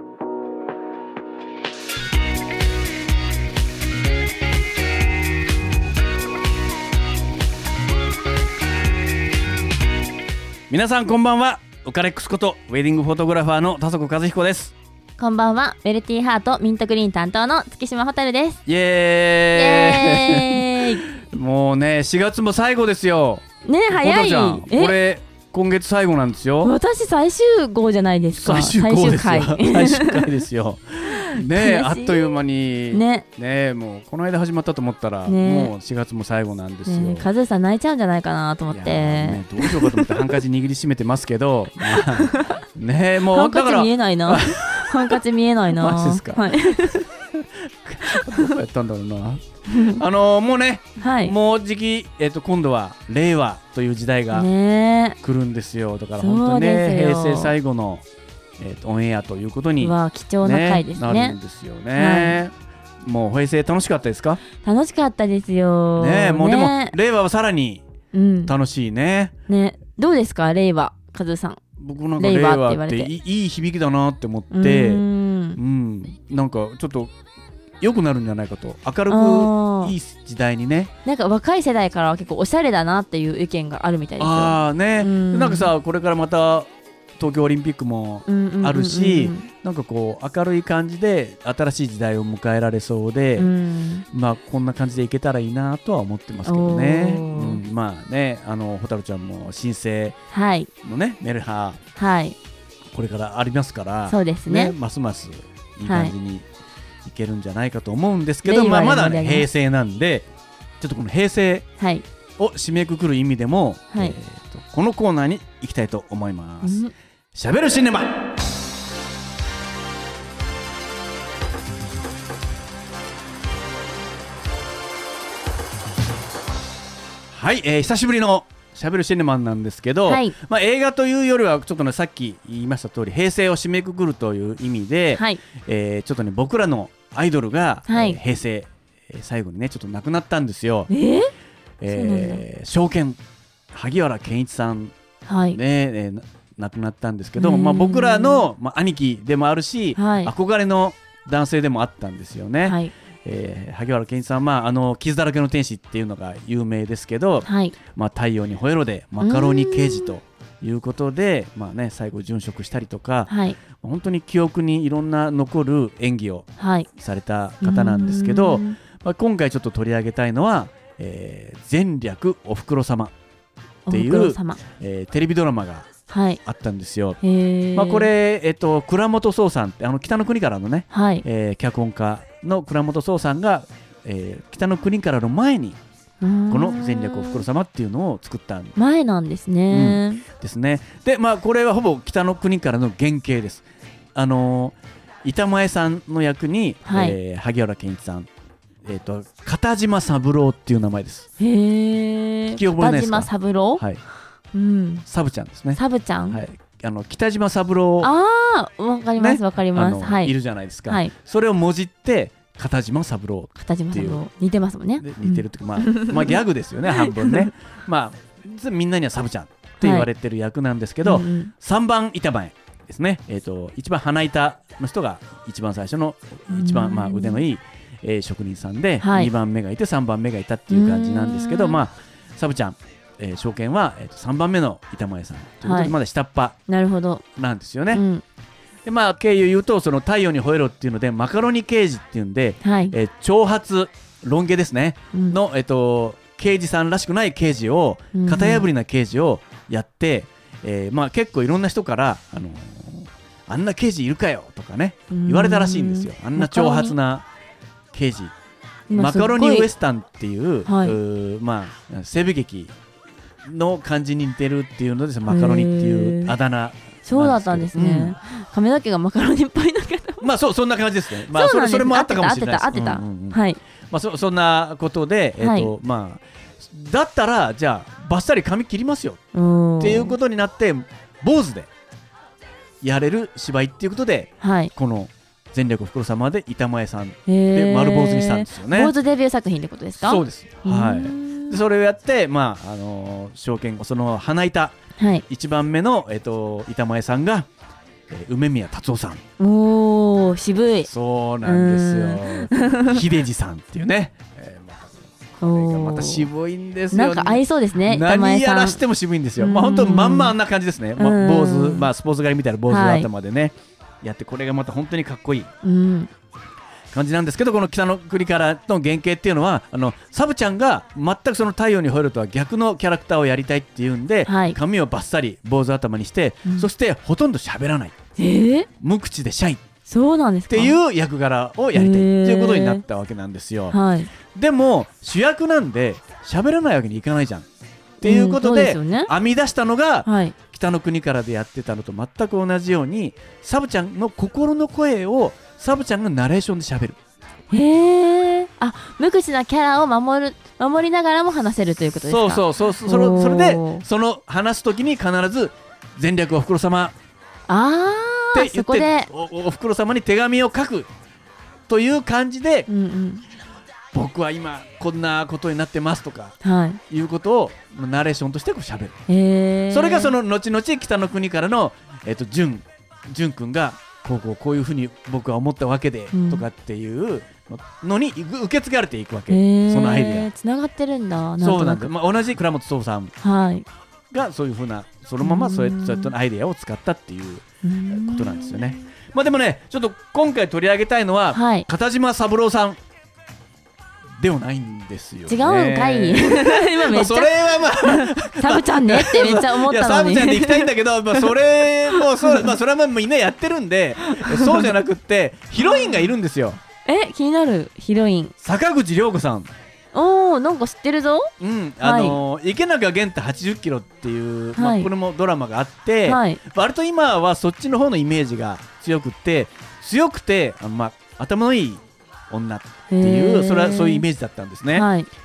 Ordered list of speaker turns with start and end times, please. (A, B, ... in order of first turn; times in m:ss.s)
0:10.7-0:14.7 A
0:15.2-0:18.6 B
0:18.6-0:26.7 A
0:19.5-0:21.0 B
0:23.6-0:25.0 B
0:26.6-0:30.3 B
0:28.4-0:37.3 A
0:31.1-0:32.3 B
0:32.9-0:33.2 B
0:35.2-0:35.7 B
0:36.9-0:40.3 B
0:38.7-0:45.2 A
0:41.9-0:42.6 B
0:43.3-0:47.0 B
0:45.7-0:54.5 A
0:48.0-0:48.5 B
0:49.7-0:50.0 B
0:51.0-0:51.3 B
0:54.3-0:55.2 B
0:55.2-0:58.0 A
0:56.2-0:57.5 B
0:58.6-1:04.4 A
0:59.8-1:01.4 B
1:02.0-1:02.4 B
1:04.6-1:06.9 B
1:06.0-1:07.8 A
1:08.1-1:08.5 B
1:08.4-1:09.3 A
1:09.5-1:11.6 B
1:11.8-1:17.1 A
1:12.2-1:13.1 B
1:14.5-1:15.6 B
1:17.8-1:20.9 A
1:19.1-1:19.9 B
1:21.0-1:25.7 B
1:24.2-1:33.5 A
1:28.3-1:29.5 B
1:33.4-1:34.0 B
1:34.1-1:40.2 A
1:36.4-1:37.6 B
1:40.3-1:40.7 B
1:40.8-1:41.8 A
1:42.0-1:42.4 B
1:42.9-1:46.4 A
1:44.1-1:44.7 B
1:45.8-1:46.1 B
1:47.0-1:50.3 A
1:48.4-1:49.5 B
1:50.8-1:51.6 A
1:51.8-1:52.0 B
1:52.4-1:58.2 A
1:56.6-1:56.9 B
2:07.3-2:20.9 A
2:10.1-2:10.4 B
2:15.1-2:15.4 B
2:17.9-2:18.2 B
2:20.9-2:21.3 B
2:21.8-2:23.2 A
2:21.9-2:22.4 B
2:23.7-2:24.9 A
2:25.2-2:25.6 B
2:25.5-2:53.1 A
2:27.4-2:28.4 B
2:30.0-2:30.3 B
2:32.6-2:32.9 B
2:37.4-2:37.7 B
2:39.2-2:40.1 B
2:43.3-2:43.6 B
2:46.6-2:46.9 B
2:47.6-2:48.8 B
2:53.8-2:54.6 B
2:53.9-2:55.9 A
2:56.1-2:56.4 B
2:56.4-2:57.2 A
2:57.2-2:58.1 B
2:57.7-3:05.8 A
3:00.9-3:01.2 B
3:06.2-3:07.4 B
3:06.5-3:08.8 A
3:08.8-3:10.2 B
3:09.7-3:13.6 A
3:14.1-3:18.3 A
3:16.8-3:17.2 B
3:18.8-3:21.3 A
3:21.4-3:23.8 B
3:22.5-3:24.0 A
3:24.5-3:25.0 B
3:25.1-3:28.1 A
3:25.8-3:26.4 B
3:28.0-3:30.3 B
3:29.2-3:34.2 A
3:30.9-3:31.1 B
3:33.6-3:36.4 B
3:35.0-3:56.6 A
3:36.9-3:37.5 B
3:39.8-3:40.1 B
3:41.0-3:41.5 B
3:46.5-3:47.4 B
3:49.0-3:49.3 B
3:50.7-3:51.8 B
3:55.6-3:55.9 B
3:56.7-3:57.2 B
3:57.4-3:58.0 A
3:57.9-3:58.2 B
3:58.8-4:17.2 A
4:02.6-4:02.9 B
4:08.1-4:08.7 B
4:15.1-4:17.0 B
4:17.9-4:18.3 A
4:18.9-4:19.7 B
4:18.9-4:22.7 A
4:20.6-4:21.0 B
4:23.4-4:28.2 A
4:25.3-4:26.4 B
4:27.0-4:30.2 B
4:30.2-4:39.2 A
4:31.3-4:33.6 B
4:35.4-4:35.7 B
4:39.3-4:40.2 B
4:39.8-4:41.7 A
4:42.8-4:48.9 A
4:44.4-4:44.7 B
4:47.3-4:51.6 B
4:50.0-4:57.5 A
4:55.0-4:55.2 B
4:58.1-4:59.2 A
4:59.4-5:00.9 B
5:00.8-5:15.5 A
5:01.4-5:03.0 B
5:05.4-5:06.3 B
5:06.9-5:08.8 B
5:09.4-5:10.4 B
5:11.0-5:11.9 B
5:12.7-5:13.1 B
5:15.6-5:16.1 B
5:16.9-5:28.0 A
5:24.2-5:24.6 B
5:28.2-5:28.7 B
5:28.8-5:29.6 A
5:29.9-5:30.8 B
5:30.5-5:33.8 A
5:31.7-5:32.8 B
5:33.7-5:34.1 B
5:34.3-5:37.5 A
5:38.0-5:47.0 A
5:38.0-5:39.1 B
5:40.0-5:40.3 B
5:47.5-5:53.8 B
5:52.0-5:56.9 A
5:57.5-5:59.1 B
5:58.3-6:00.9 A
6:01.7-6:02.7 A
6:02.7-6:03.2 B
6:03.9-6:06.4 A
6:06.4-6:06.8 B
6:06.9-6:09.0 A
6:09.1-6:10.1 B
6:09.7-6:20.3 A
6:16.1-6:16.4 B
6:19.3-6:21.9 B
6:21.4-6:23.1 A
6:23.2-6:23.6 B
6:24.1-6:32.8 A
6:25.2-6:26.1 B
6:27.6-6:28.8 B
6:31.3-6:31.7 B
6:34.2-6:46.6 A
6:35.3-6:42.5 B
6:44.1-6:44.7 B
6:45.6-6:46.1 B
6:46.8-6:48.3 B
6:48.4-6:49.5 A
6:49.9-6:51.3 B
6:51.4-7:04.9 A
6:51.8-6:52.2 B
6:54.6-6:54.9 B
6:56.0-6:56.4 B
7:02.9-7:04.0 B
7:04.8-7:05.1 B